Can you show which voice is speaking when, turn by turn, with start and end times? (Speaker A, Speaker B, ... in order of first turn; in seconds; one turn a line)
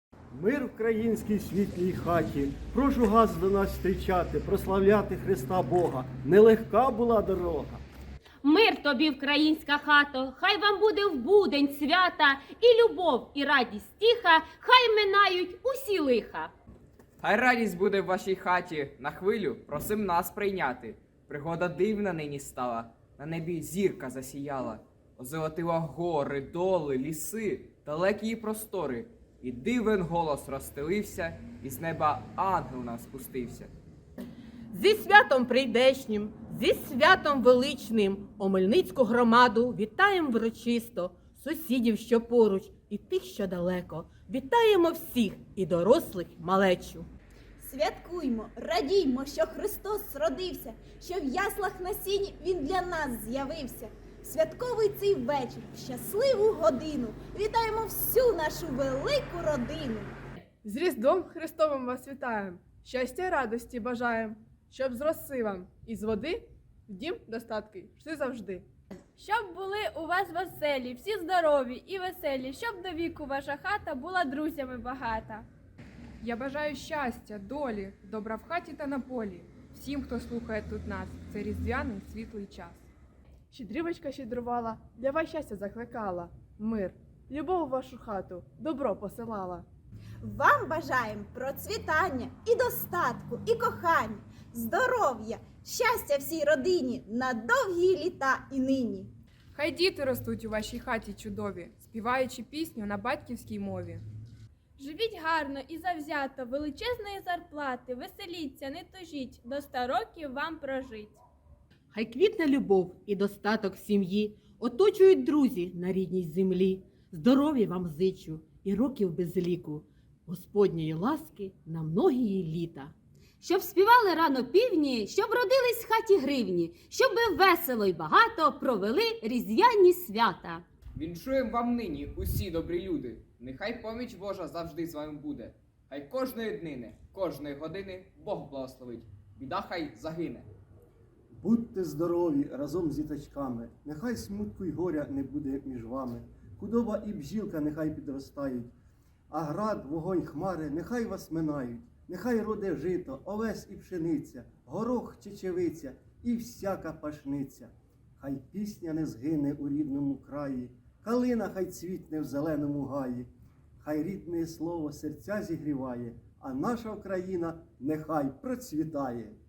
Speaker A: 0.3-7.8
Speaker B: 8.4-16.5
Speaker C: 17.2-33.7
Speaker D: 34.7-47.1
Speaker E: 47.6-60.1
Speaker F: 60.6-68.7
Speaker G: 69.2-75.5
Speaker H: 76.2-82.9
Speaker F: 83.5-89.7
Speaker E: 90.2-99.1
Speaker H: 99.5-104.0
Speaker G: 104.8-111.2
Speaker D: 111.9-122.9
Speaker B: 123.4-130.6
Speaker C: 130.9-140.5
Speaker A: 141.3-148.7
Speaker A: 149.3-163.3
Speaker A: 163.8-169.3